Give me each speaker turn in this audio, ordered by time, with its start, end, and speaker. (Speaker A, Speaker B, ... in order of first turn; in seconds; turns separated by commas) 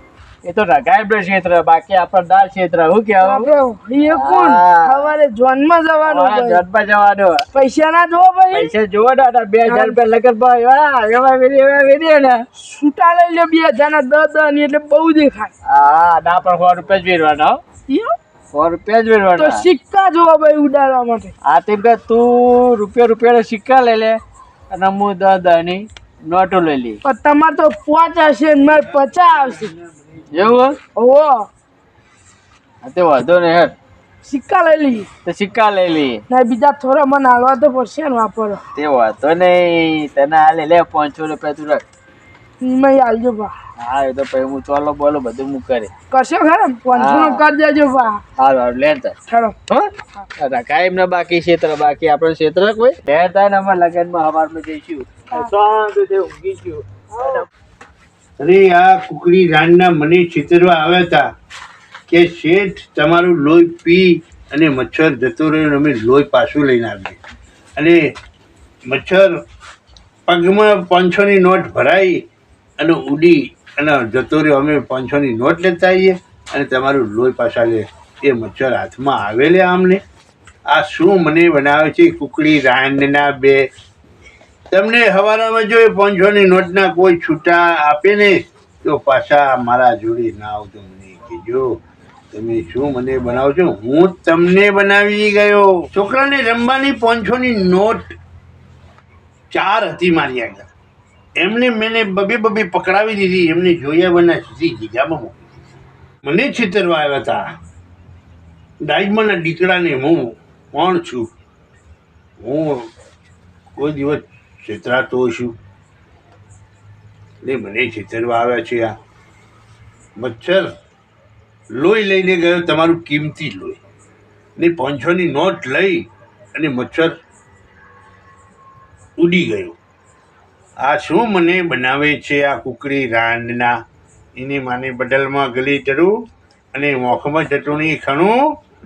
Speaker A: 0.4-3.5, Speaker B: 3.2-6.6, Speaker A: 4.0-5.1, Speaker A: 6.0-7.5, Speaker B: 7.5-8.7, Speaker A: 8.5-12.4, Speaker B: 9.7-10.0, Speaker B: 12.6-15.5, Speaker A: 15.7-17.6, Speaker B: 17.9-18.1, Speaker A: 18.5-19.6, Speaker B: 19.4-21.3, Speaker A: 21.4-27.0, Speaker B: 27.0-29.8, Speaker A: 30.3-30.8, Speaker B: 30.9-31.5, Speaker A: 32.8-33.8, Speaker B: 34.2-35.1, Speaker A: 35.2-36.2, Speaker B: 36.3-38.6, Speaker A: 38.8-41.8, Speaker B: 42.6-43.5, Speaker A: 43.8-45.9, Speaker B: 46.1-48.2, Speaker A: 46.9-47.4, Speaker A: 48.4-49.1, Speaker B: 49.3-49.5, Speaker A: 49.7-57.5, Speaker C: 58.4-61.3, Speaker C: 62.1-67.2, Speaker C: 67.8-68.0, Speaker C: 68.9-69.4, Speaker C: 70.3-72.2, Speaker C: 72.8-80.0, Speaker C: 80.7-83.7, Speaker C: 84.7-91.8, Speaker C: 92.3-98.2, Speaker C: 99.5-100.7, Speaker C: 101.4-105.3, Speaker C: 106.2-107.5, Speaker C: 108.8-111.3, Speaker C: 112.4-112.9, Speaker C: 113.8-115.6, Speaker C: 117.4-119.0, Speaker C: 120.2-120.7, Speaker C: 121.8-123.8, Speaker C: 124.6-127.2, Speaker C: 129.2-129.8, Speaker C: 130.8-133.8, Speaker C: 134.4-136.2, Speaker C: 136.7-138.6